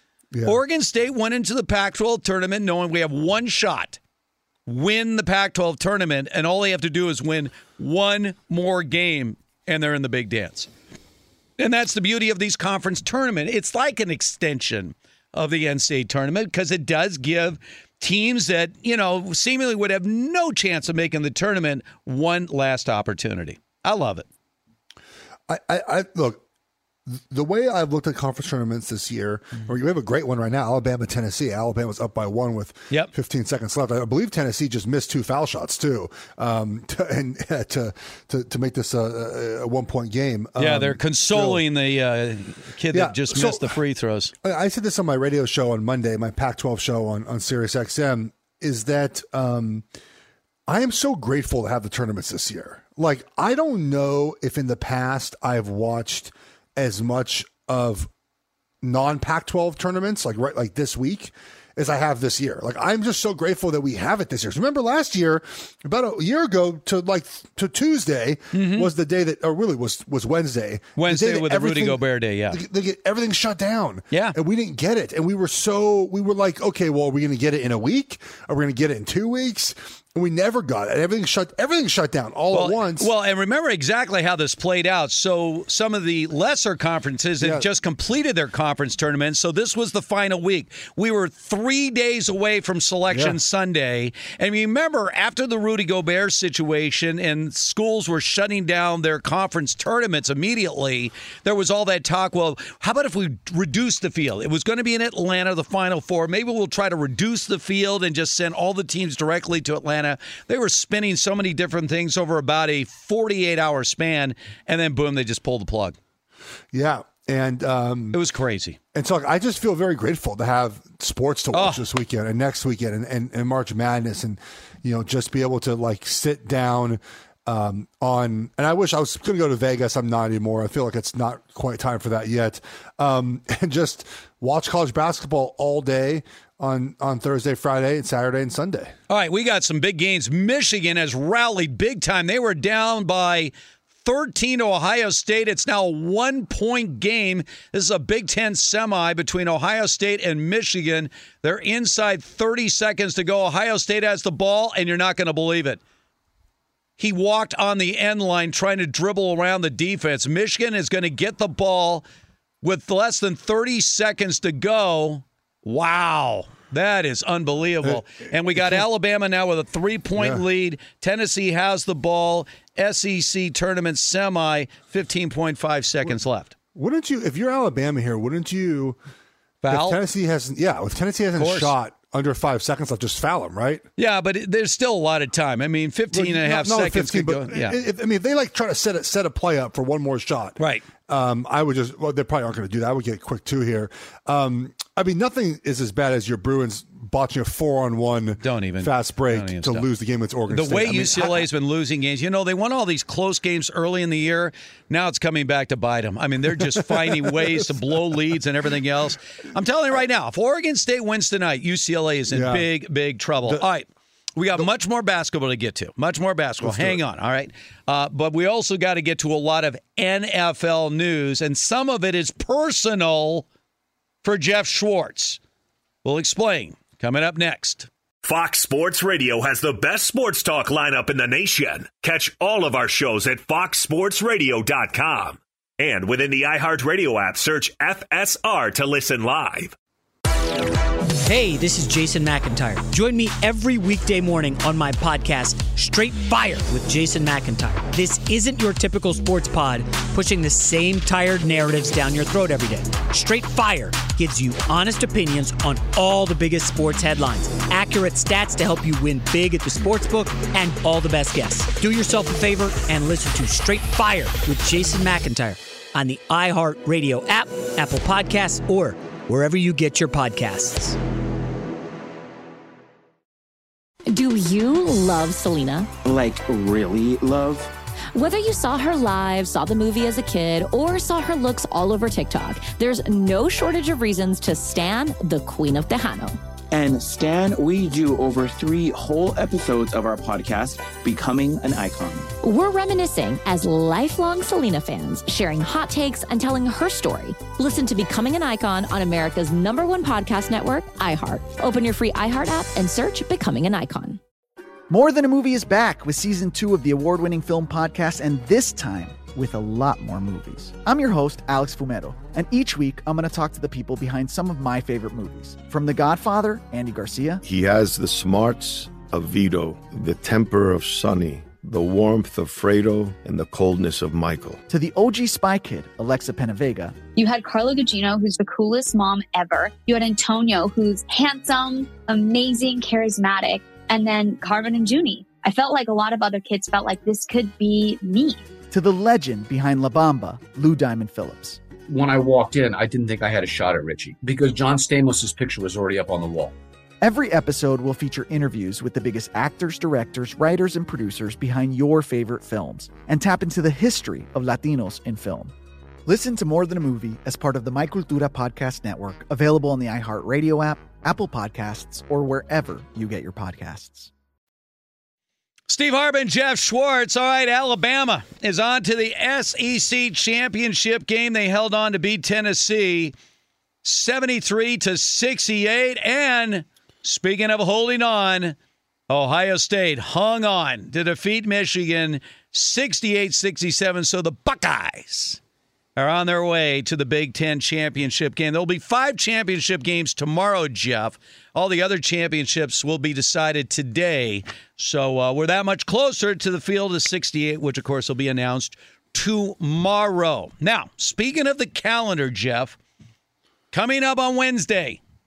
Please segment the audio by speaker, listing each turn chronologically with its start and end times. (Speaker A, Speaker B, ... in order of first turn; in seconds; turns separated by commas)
Speaker A: 0.3-0.6, Speaker B: 0.5-4.0, Speaker B: 4.7-10.7, Speaker B: 11.6-24.3, Speaker A: 25.5-26.4, Speaker A: 27.1-41.6, Speaker B: 40.6-44.3, Speaker A: 42.9-43.8, Speaker A: 44.4-49.9, Speaker A: 50.7-58.1, Speaker A: 58.8-83.1, Speaker B: 68.5-68.9, Speaker B: 71.0-72.6, Speaker B: 82.5-116.0, Speaker A: 87.4-87.7, Speaker A: 93.1-93.4, Speaker A: 116.7-118.2, Speaker B: 118.1-118.8, Speaker A: 118.9-138.9, Speaker B: 121.5-121.8, Speaker B: 139.1-155.8, Speaker B: 157.0-162.0, Speaker B: 162.6-176.5, Speaker A: 167.8-168.8, Speaker A: 170.2-170.4, Speaker A: 176.7-179.0, Speaker B: 179.6-180.0, Speaker A: 179.7-183.9, Speaker B: 181.4-181.7, Speaker B: 184.0-187.8, Speaker A: 186.1-201.5, Speaker B: 190.6-190.9, Speaker B: 198.4-199.9, Speaker B: 200.5-223.5, Speaker A: 206.5-207.8, Speaker A: 212.3-212.7, Speaker A: 216.6-217.0, Speaker B: 224.2-225.4, Speaker B: 226.0-227.9, Speaker C: 228.2-239.7, Speaker D: 241.1-271.0, Speaker E: 274.1-275.9, Speaker F: 276.1-277.7, Speaker E: 278.1-286.4, Speaker F: 286.7-292.3, Speaker E: 292.4-304.2, Speaker G: 304.9-317.4, Speaker H: 317.4-324.6, Speaker G: 324.7-327.0, Speaker I: 327.2-338.4, Speaker G: 338.7-341.6, Speaker J: 341.9-346.5, Speaker G: 347.0-355.5, Speaker G: 356.1-364.1, Speaker B: 365.7-373.1, Speaker B: 373.8-378.6, Speaker B: 379.1-385.4, Speaker B: 386.0-402.8, Speaker B: 403.7-405.0